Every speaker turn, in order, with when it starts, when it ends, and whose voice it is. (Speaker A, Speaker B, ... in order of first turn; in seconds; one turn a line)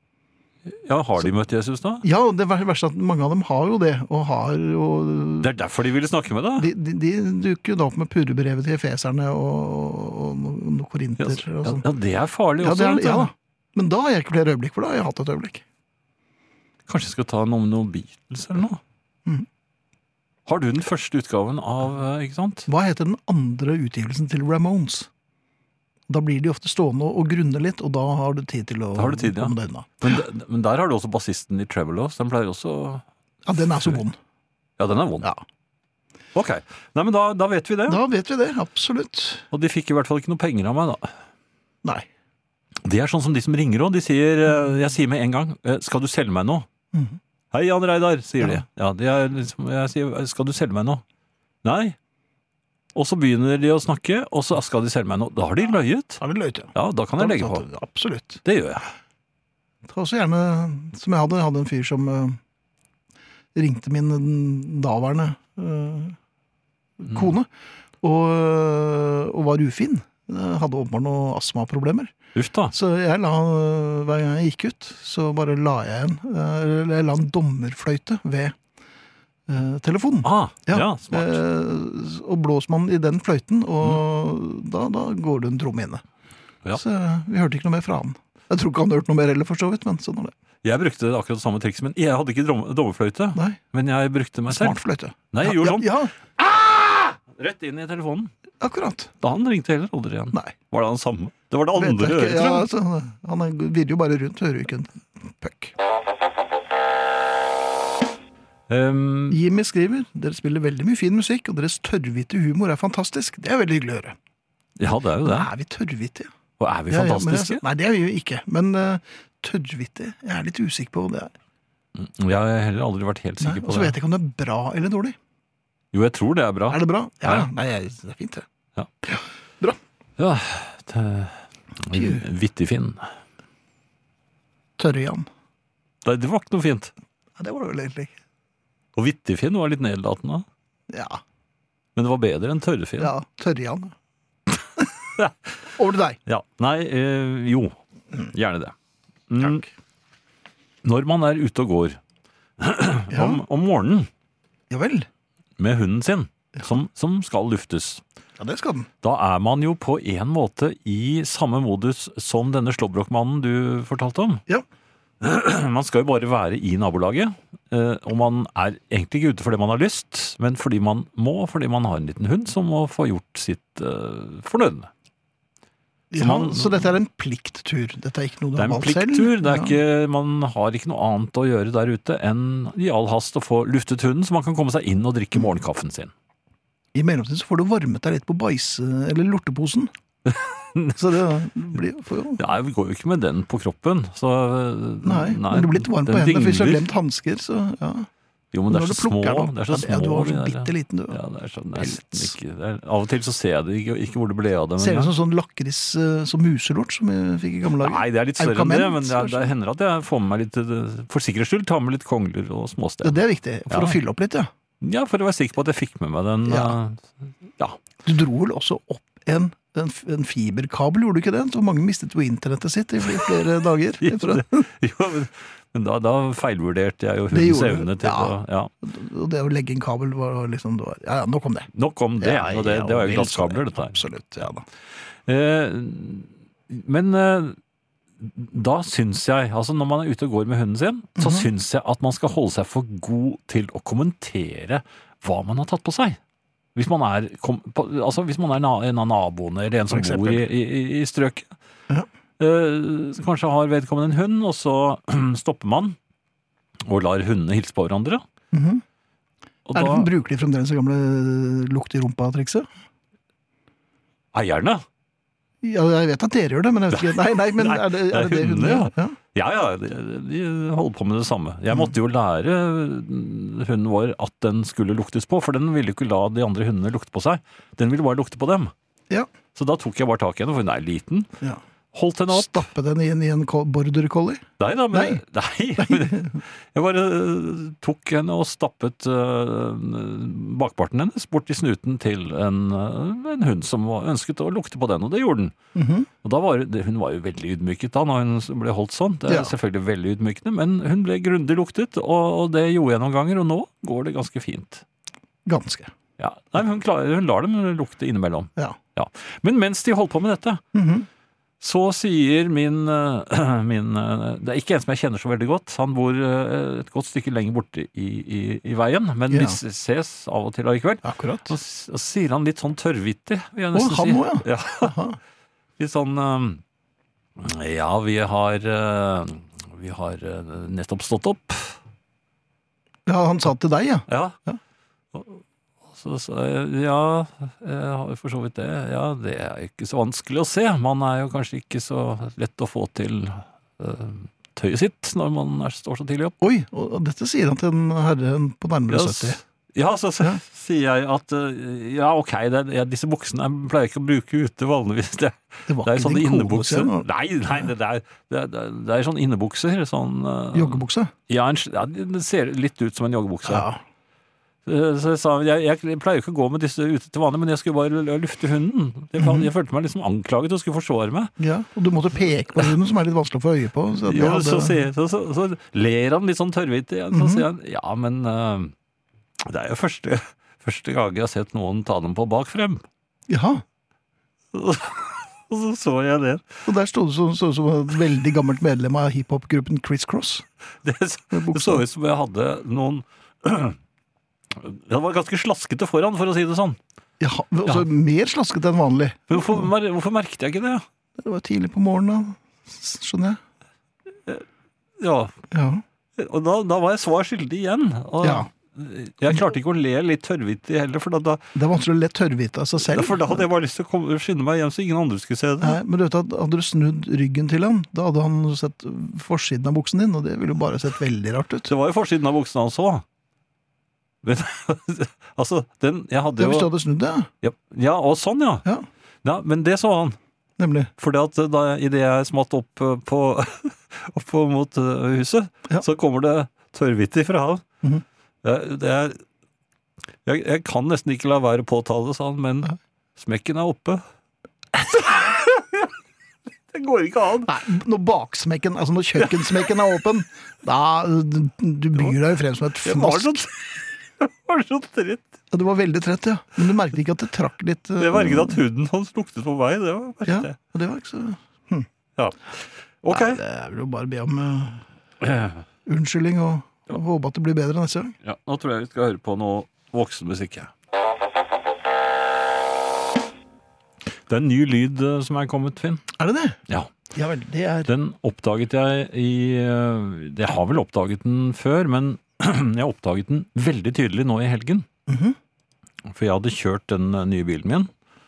Speaker A: 0.7-2.0
Speaker B: 2.0-5.5
Speaker A: 5.4-6.7
Speaker B: 6.6-11.8
Speaker A: 11.2-13.3
Speaker B: 12.6-15.6
Speaker A: 16.9-18.8
Speaker A: 20.4-22.7
Speaker B: 22.7-25.1
Speaker B: 26.1-30.2
Speaker A: 28.9-33.0
Speaker B: 33.5-34.2
Speaker A: 33.6-34.0
Speaker A: 34.8-35.3
Speaker A: 36.3-38.0
Speaker B: 37.9-39.5
Speaker A: 39.5-41.1
Speaker A: 42.8-46.7
Speaker B: 46.9-47.2
Speaker A: 47.5-51.0
Speaker A: 51.6-52.0
Speaker A: 52.9-56.2
Speaker B: 56.2-58.4
Speaker A: 56.7-57.6
Speaker A: 58.4-58.9
Speaker B: 59.9-62.4
Speaker B: 63.5-66.2
Speaker B: 67.0-67.5
Speaker B: 68.0-72.1
Speaker A: 72.3-72.7
Speaker B: 72.7-78.5
Speaker B: 79.5-86.0
Speaker A: 80.2-81.4
Speaker B: 86.7-90.3
Speaker A: 90.6-98.3
Speaker B: 94.5-96.1
Speaker B: 98.6-99.1
Speaker A: 99.2-102.7
Speaker B: 101.8-105.7
Speaker A: 108.7-109.4
Speaker B: 109.3-114.2
Speaker A: 114.8-115.5
Speaker B: 115.2-116.3
Speaker A: 116.6-117.6
Speaker B: 116.9-121.3
Speaker A: 122.0-124.0
Speaker B: 123.4-125.2
Speaker A: 125.9-127.5
Speaker B: 126.7-128.4
Speaker B: 129.0-129.8
Speaker A: 130.2-133.1
Speaker B: 131.9-132.2
Speaker B: 134.8-135.3
Speaker A: 136.0-136.9
Speaker B: 137.4-138.1
Speaker A: 138.9-140.4
Speaker B: 140.9-141.2
Speaker A: 141.9-143.1
Speaker B: 143.0-143.9
Speaker A: 145.2-145.6
Speaker B: 145.7-146.2
Speaker A: 146.2-147.8
Speaker A: 148.3-148.7
Speaker A: 149.3-149.7
Speaker B: 149.4-149.7
Speaker A: 150.8-152.0
Speaker A: 152.6-154.1
Speaker B: 153.1-153.4
Speaker B: 154.7-155.1
Speaker A: 155.6-158.0
Speaker B: 158.4-158.9
Speaker A: 159.0-164.4
Speaker A: 165.2-174.9
Speaker B: 176.1-179.8
Speaker A: 176.2-176.9
Speaker A: 178.6-186.1
Speaker B: 186.9-189.9
Speaker A: 190.2-191.0
Speaker B: 191.0-192.4
Speaker A: 192.4-196.9
Speaker B: 195.0-198.1
Speaker A: 198.5-205.1
Speaker B: 198.7-201.2
Speaker B: 201.8-202.3
Speaker B: 204.8-209.5
Speaker A: 207.8-214.0
Speaker B: 213.0-214.5
Speaker A: 214.8-217.8
Speaker B: 216.4-216.8
Speaker B: 218.0-224.7
Speaker A: 224.0-228.7
Speaker B: 227.3-234.6
Speaker A: 231.7-234.0
Speaker A: 235.2-237.6
Speaker A: 238.2-246.2
Speaker B: 241.2-241.5
Speaker A: 246.7-251.5
Speaker B: 249.9-250.4
Speaker A: 252.4-255.9
Speaker A: 256.8-258.2
Speaker B: 258.5-258.8
Speaker A: 259.7-260.1
Speaker B: 259.7-262.7
Speaker A: 264.3-264.8
Speaker B: 265.6-269.1
Speaker A: 266.9-278.7
Speaker A: 279.5-281.3
Speaker A: 281.9-282.7
Speaker B: 282.3-285.2
Speaker A: 284.6-295.5
Speaker B: 285.8-286.4
Speaker B: 295.7-296.1
Speaker A: 296.2-304.8
Speaker B: 299.3-299.5
Speaker B: 305.4-305.9
Speaker A: 306.2-310.6
Speaker B: 310.7-311.1
Speaker A: 311.6-324.9
Speaker B: 319.3-319.6
Speaker B: 321.0-321.5
Speaker B: 323.7-325.2
Speaker A: 325.8-326.6
Speaker A: 327.4-331.8
Speaker B: 333.1-334.6
Speaker A: 334.1-334.4
Speaker A: 335.1-346.3
Speaker B: 346.4-349.4
Speaker A: 348.9-363.7
Speaker B: 355.7-357.7
Speaker B: 360.5-361.1
Speaker B: 363.4-363.8
Speaker A: 364.6-371.3
Speaker B: 369.2-369.5
Speaker B: 371.4-374.8
Speaker A: 374.0-378.7
Speaker B: 377.1-377.4
Speaker A: 379.4-382.8
Speaker B: 383.3-383.6
Speaker A: 384.5-386.4
Speaker B: 386.6-390.4
Speaker A: 390.8-393.8
Speaker B: 391.3-391.8
Speaker A: 394.5-396.8
Speaker B: 397.2-399.7
Speaker A: 399.3-400.8
Speaker B: 401.2-403.4
Speaker A: 405.0-405.4
Speaker B: 405.5-405.8
Speaker A: 406.1-411.4
Speaker B: 408.2-408.5
Speaker B: 411.5-413.4
Speaker A: 412.8-415.8
Speaker B: 415.6-421.7
Speaker A: 421.7-423.0
Speaker A: 424.2-426.7
Speaker B: 426.4-427.3
Speaker A: 427.4-428.6
Speaker A: 429.2-430.2
Speaker B: 430.6-430.9
Speaker A: 431.0-437.6
Speaker A: 438.4-439.2
Speaker A: 440.2-444.0
Speaker A: 444.7-445.9
Speaker A: 446.7-447.5
Speaker B: 447.5-453.4
Speaker A: 449.2-449.6
Speaker A: 452.8-455.3
Speaker B: 455.5-458.6
Speaker A: 458.0-460.6
Speaker B: 460.2-461.9
Speaker A: 462.1-463.4
Speaker B: 463.1-464.8
Speaker A: 465.2-465.6
Speaker B: 465.9-468.1
Speaker A: 468.2-470.7
Speaker A: 474.3-476.0
Speaker B: 476.1-476.6
Speaker B: 477.1-477.9
Speaker A: 477.9-484.9
Speaker B: 485.1-485.4
Speaker A: 486.1-487.9